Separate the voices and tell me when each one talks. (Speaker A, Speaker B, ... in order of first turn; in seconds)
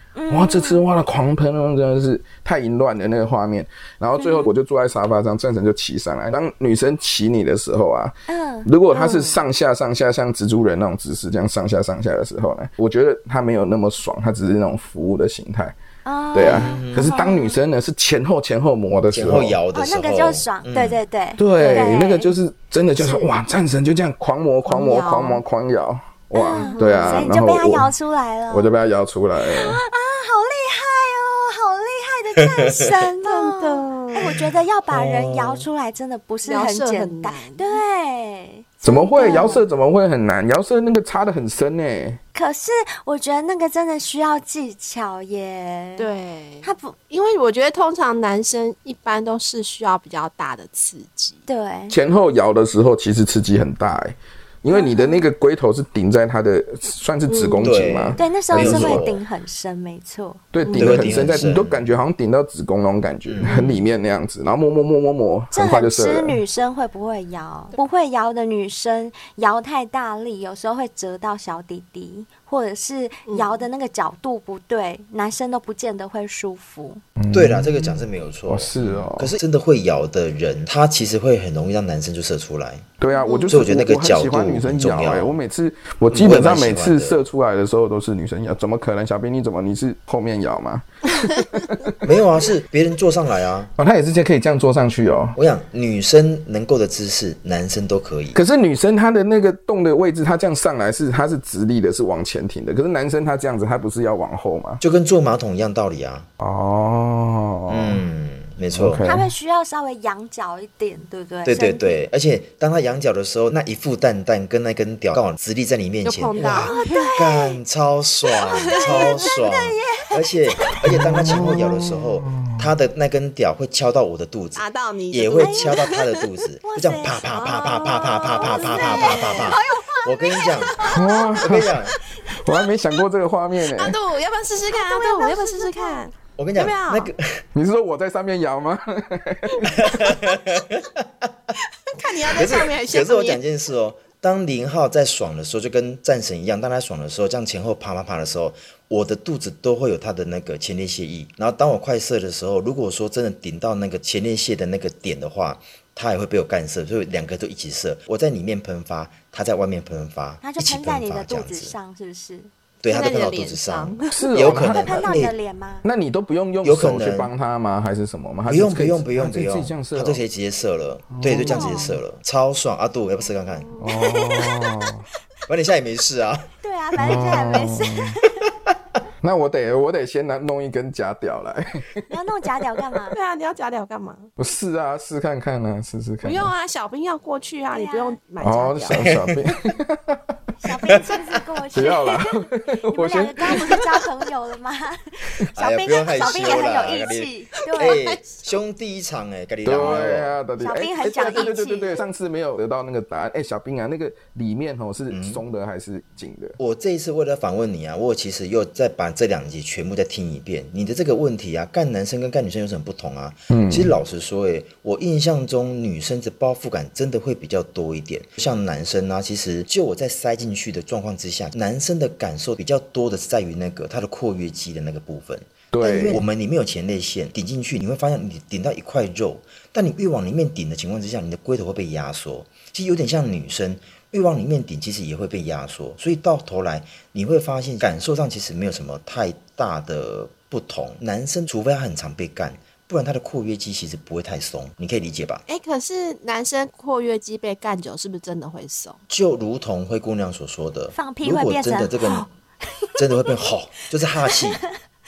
Speaker A: 0.1-0.8, 4.2-4.5, 8.3-9.4, 16.1-17.6, 19.7-22.3, 23.0-23.3, 26.3-28.7, 29.4-39.6, 42.3-46.1, 46.6-46.9, 51.5-52.0, 54.7-55.3, 58.2-60.5, 65.5-77.0, 83.1-83.5, 109.0-112.0, 116.4-117.6, 118.7-120.2, 125.4-125.7, 126.6-127.6, 128.3-131.2, 134.7-136.1, 160.4-162.5, 164.5-165.9, 171.4-171.9, 173.9-174.5, 176.6-178.4, 182.1-183.2, 187.7-188.2, 190.6-198.0, 200.6-202.0, 250.9-252.3
Speaker B: 0.3-15.8, 16.3-19.6, 21.4-27.9, 28.5-29.8, 38.8-42.2, 51.9-59.0, 60.5-66.4, 77.2-79.4, 83.0-92.0, 93.8-95.4, 98.3-104.8, 106.4-108.0, 108.7-109.3, 120.8-122.7, 130.9-131.8, 132.3-134.0, 137.5-139.9, 164.1-165.2, 165.8-170.2, 171.1-172.0, 173.8-175.0, 177.0-178.2, 179.2-182.0, 184.4-186.5, 188.4-190.2, 191.7-193.8, 199.6-206.6, 213.5-213.9, 225.7-226.2
Speaker C: 16.4-17.1, 19.1-21.0, 32.6-32.9, 34.2-35.6, 57.6-59.2, 60.8-61.9, 63.3-63.8, 77.3-82.9, 83.5-85.4, 86.1-87.2, 92.0-93.7, 95.4-98.4, 104.8-106.3, 107.7-109.0, 111.4-131.9, 136.4-137.4, 139.6-141.5, 142.2-161.8, 162.8-165.3, 166.6-167.3, 168.5-173.8, 175.5-177.7, 188.9-189.4, 190.9-191.2, 195.5-200.4, 205.1-205.4, 206.6-245.4, 249.1-252.3, 253.0-254.6
Speaker D: 24.6-25.4, 26.5-27.3, 33.2-34.3, 36.4-37.8, 39.2-39.6, 46.0-51.4, 57.3-57.6, 73.2-73.6, 83.1-83.4, 116.0-117.1, 118.5-119.3, 124.6-126.2, 127.2-129.6, 130.7-131.3, 131.9-132.3, 133.6-137.1, 141.9-143.4, 162.9-164.2, 173.6-174.0, 183.1-184.3, 186.2-189.0, 193.5-193.8, 197.8-198.4, 201.0-201.5, 245.5-249.0